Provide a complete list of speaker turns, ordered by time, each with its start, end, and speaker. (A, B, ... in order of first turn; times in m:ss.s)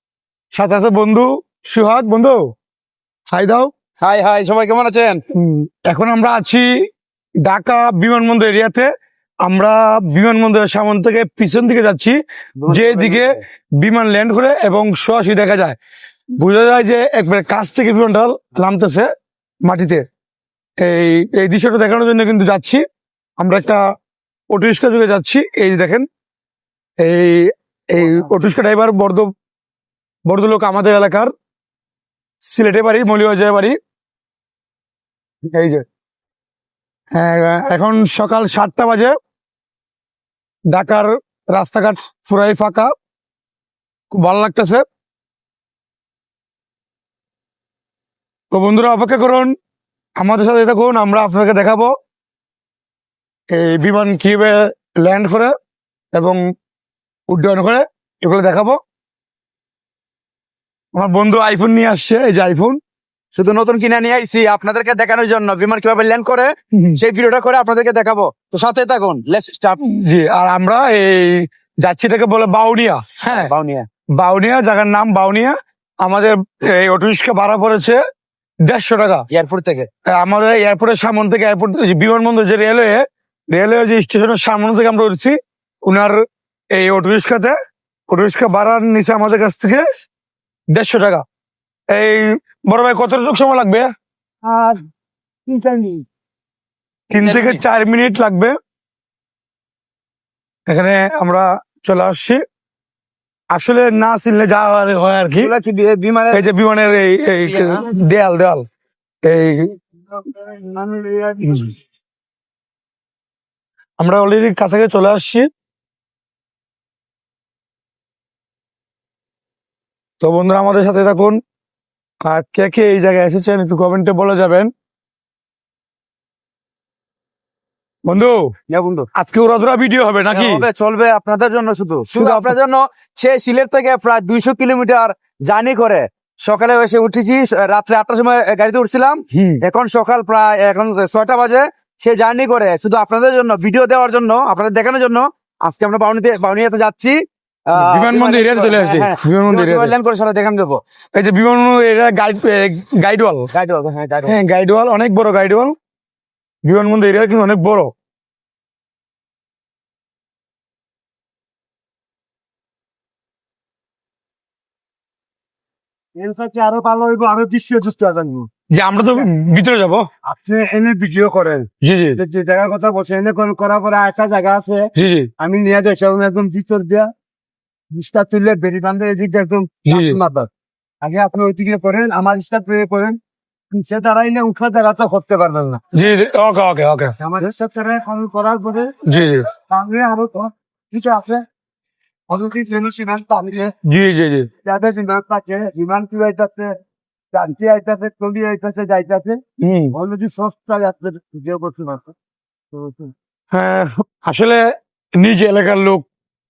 0:00.5-0:02.4 A
0:03.3-0:03.7 A
0:04.0-0:05.2 B
0:05.3-0:06.7 A
0:07.4-0:08.9 A
0:09.4-0:15.8 A
0:12.6-0:13.4 B
0:16.4-0:19.1 A
0:19.6-0:20.0 A
0:20.8-0:22.8 A
0:23.4-0:23.8 A
0:24.5-0:26.1 A
0:27.0-0:29.3 A
0:30.3-0:31.3 A
0:32.5-0:33.8 A
0:35.5-0:35.8 A
0:37.1-0:39.2 A
0:40.7-0:42.9 A
0:44.1-0:44.8 A
0:48.5-0:49.5 A
0:50.2-0:51.9 A
0:53.5-0:55.5 A
0:56.1-0:56.4 A
0:57.3-0:58.8 A
1:01.0-1:02.8 A
1:03.4-1:09.8 B
1:06.7-1:07.0 A
1:09.8-1:13.5 A
1:13.3-1:13.9 B
1:14.2-1:18.0 A
1:18.7-1:19.2 A
1:19.3-1:19.9 B
1:20.1-1:26.2 A
1:26.7-1:27.6 A
1:28.1-1:29.8 A
1:30.7-1:31.2 A
1:31.9-1:33.9 A
1:34.4-1:34.8 C
1:35.5-1:36.0 C
1:37.1-1:38.6 A
1:37.2-1:37.6 B
1:40.7-1:42.4 A
1:43.5-1:45.5 A
1:45.4-1:46.5 B
1:46.3-1:48.6 A
1:47.4-1:47.9 B
1:49.2-1:49.8 A
1:50.2-1:51.7 C
1:51.4-1:51.7 A
1:54.0-1:55.5 A
2:00.2-2:01.4 A
2:02.2-2:04.7 A
2:08.1-2:08.5 A
2:08.7-2:09.1 B
2:09.2-2:10.6 A
2:10.3-2:27.2 B
2:12.1-2:12.6 A
2:19.3-2:19.6 A
2:27.7-2:30.8 B
2:27.8-2:29.9 A
2:31.2-2:33.5 A
2:33.5-2:34.4 B
2:34.2-2:35.8 A
2:36.6-2:37.9 A
2:46.2-2:49.3 C
2:48.7-2:50.1 A
2:50.2-2:57.1 C
2:51.8-2:52.2 A
2:55.0-2:55.3 A
2:57.9-3:00.5 C
2:59.9-3:00.2 A
3:01.0-3:03.2 C
3:03.7-3:05.8 C
3:05.9-3:07.2 A
3:07.2-3:09.0 C
3:09.0-3:09.5 A
3:09.6-3:11.4 C
3:12.3-3:13.7 C
3:13.8-3:14.5 A
3:14.6-3:16.7 C
3:17.3-3:19.4 C
3:19.6-3:20.0 A
3:19.9-3:22.1 C
3:22.7-3:23.1 C
3:23.5-3:24.6 A
3:25.2-3:26.1 A